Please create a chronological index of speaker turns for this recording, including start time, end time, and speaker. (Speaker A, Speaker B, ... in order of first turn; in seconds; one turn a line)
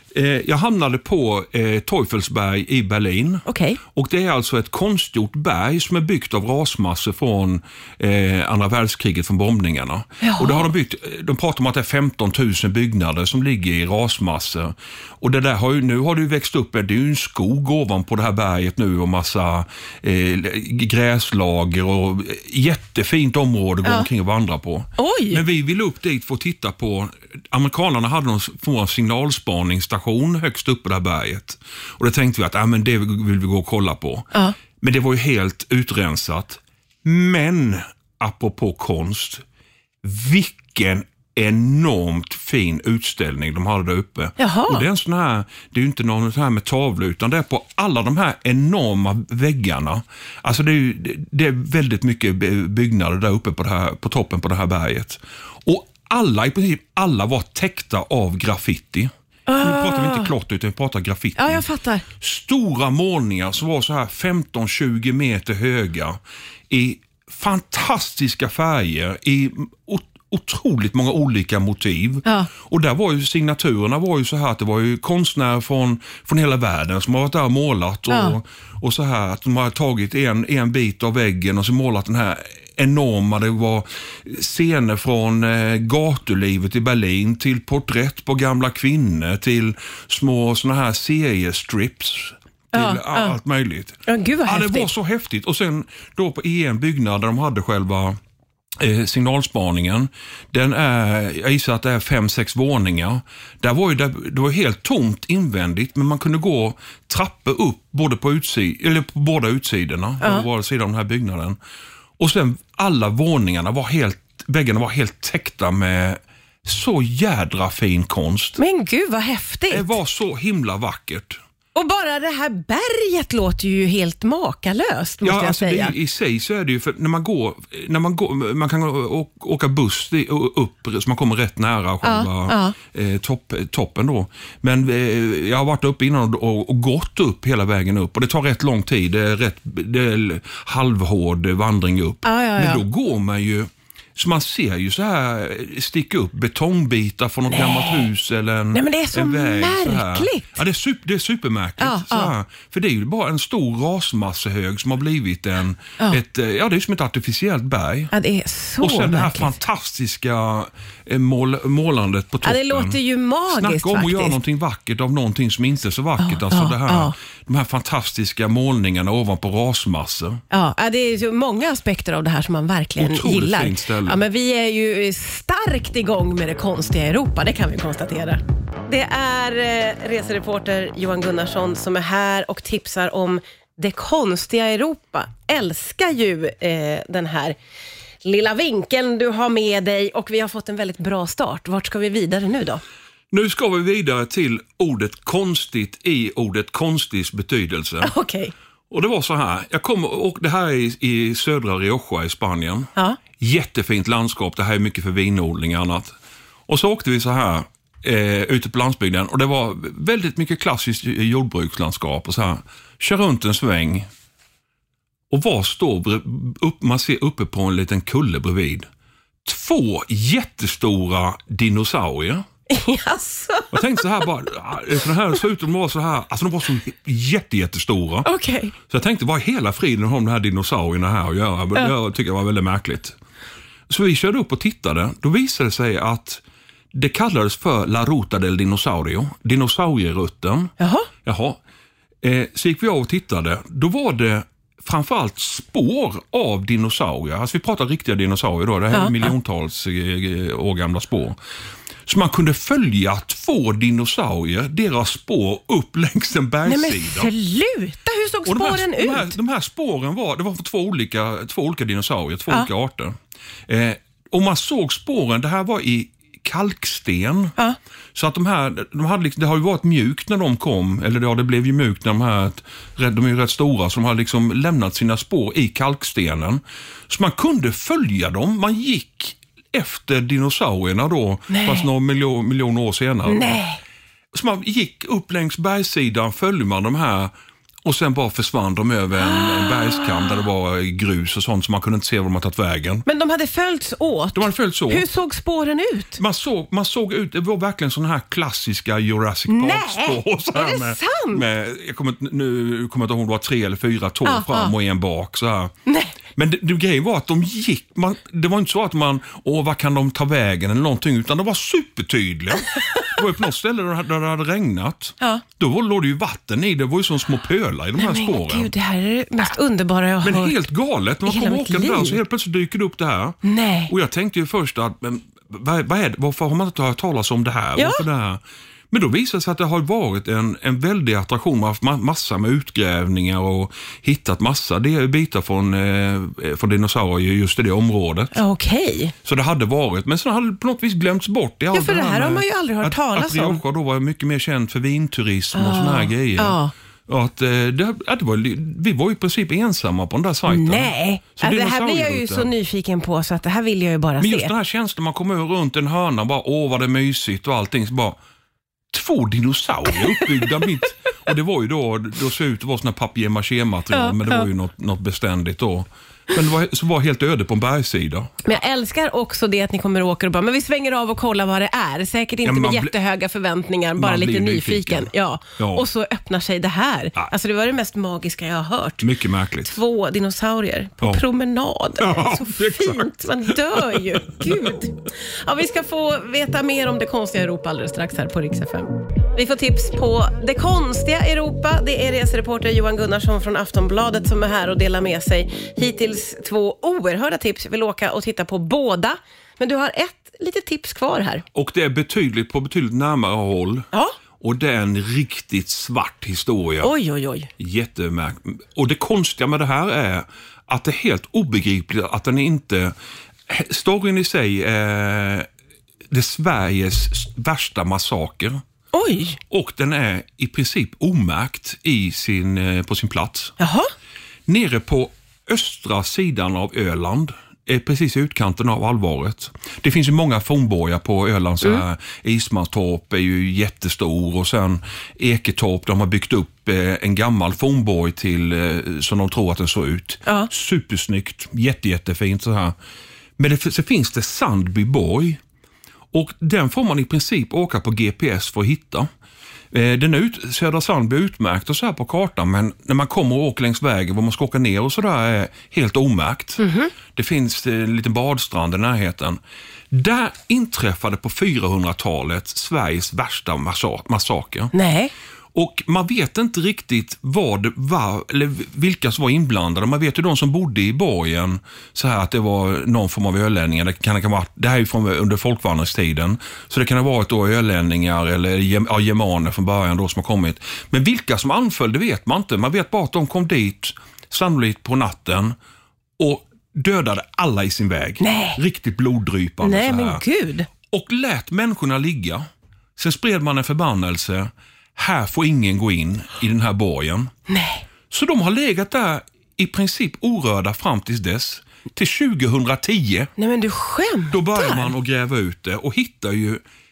Speaker A: 0.1-39.4
Speaker B: 3.5-3.8
Speaker B: 10.2-10.7
Speaker B: 23.8-24.1
Speaker B: 25.0-25.4
Speaker A: 40.0-59.1
Speaker B: 44.4-44.9
Speaker B: 59.5-60.3
Speaker A: 59.6-61.6
Speaker B: 61.4-62.0
Speaker A: 62.2-66.2
Speaker A: 66.7-98.2
Speaker B: 78.1-78.4
Speaker B: 92.7-93.4
Speaker B: 94.1-94.9
Speaker A: 98.8-111.6
Speaker B: 110.2-110.5
Speaker A: 112.2-118.6
Speaker B: 118.6-120.0
Speaker A: 119.7-121.4
Speaker B: 121.8-126.0
Speaker A: 125.2-158.1
Speaker B: 132.0-132.8
Speaker B: 142.2-142.8
Speaker B: 147.5-148.1
Speaker B: 148.7-150.6
Speaker B: 151.8-152.3
Speaker B: 158.1-159.6
Speaker A: 158.8-163.0
Speaker B: 162.4-164.4
Speaker A: 163.5-170.4
Speaker B: 166.2-167.1
Speaker B: 170.5-187.6
Speaker A: 173.0-174.2
Speaker B: 188.2-192.8
Speaker A: 193.3-198.1
Speaker B: 198.0-198.5
Speaker A: 198.9-206.1
Speaker A: 206.7-214.1
Speaker A: 215.3-218.9
Speaker A: 219.4-222.4
Speaker B: 222.7-224.1
Speaker A: 223.7-228.3
Speaker B: 228.2-228.7
Speaker A: 228.9-233.2
Speaker A: 233.9-236.4
Speaker A: 236.9-240.7
Speaker B: 240.8-241.1
Speaker A: 241.2-241.6
Speaker A: 242.2-251.4
Speaker B: 248.9-249.3
Speaker A: 252.1-257.3
Speaker B: 256.7-259.4
Speaker A: 258.5-263.1
Speaker A: 263.7-267.6
Speaker A: 268.1-283.5
Speaker B: 281.5-281.9
Speaker B: 283.3-283.8
Speaker A: 284.3-287.3
Speaker A: 287.9-293.1
Speaker B: 289.2-290.4
Speaker B: 293.1-296.2
Speaker A: 294.4-295.1
Speaker A: 296.2-305.7
Speaker B: 299.5-301.4
Speaker B: 304.2-304.7
Speaker B: 305.9-306.1
Speaker A: 306.4-318.7
Speaker B: 318.0-320.7
Speaker A: 320.2-323.4
Speaker B: 321.2-322.2
Speaker B: 323.4-323.9
Speaker A: 323.9-338.3
Speaker B: 327.8-328.0
Speaker B: 338.3-339.1
Speaker A: 339.2-352.5
Speaker B: 341.7-343.6
Speaker B: 345.5-346.7
Speaker B: 350.5-354.5
Speaker A: 354.2-358.2
Speaker A: 358.9-368.3
Speaker B: 360.2-360.5
Speaker B: 363.9-364.5
Speaker B: 368.4-379.1
Speaker A: 372.4-372.9
Speaker A: 374.0-375.9
Speaker A: 379.0-379.8
Speaker B: 379.6-401.5
Speaker A: 382.0-384.7
Speaker A: 401.5-403.9
Speaker A: 404.4-406.9
Speaker B: 406.8-407.5
Speaker A: 407.6-412.9
Speaker A: 413.5-415.5
Speaker A: 416.1-418.6
Speaker B: 418.9-419.4
Speaker A: 419.5-423.5
Speaker B: 423.6-423.9
Speaker A: 424.5-442.8
Speaker A: 443.4-445.4
Speaker A: 446.1-449.1
Speaker A: 449.7-459.4
Speaker B: 456.6-456.9
Speaker A: 459.9-464.7
Speaker B: 464.7-465.1
Speaker A: 465.6-485.6
Speaker A: 486.2-490.2
Speaker B: 488.2-488.6
Speaker B: 489.6-490.7
Speaker A: 490.9-492.4
Speaker A: 493.0-497.3
Speaker B: 497.5-497.9
Speaker A: 498.1-503.3
Speaker B: 503.4-504.9
Speaker A: 504.3-506.6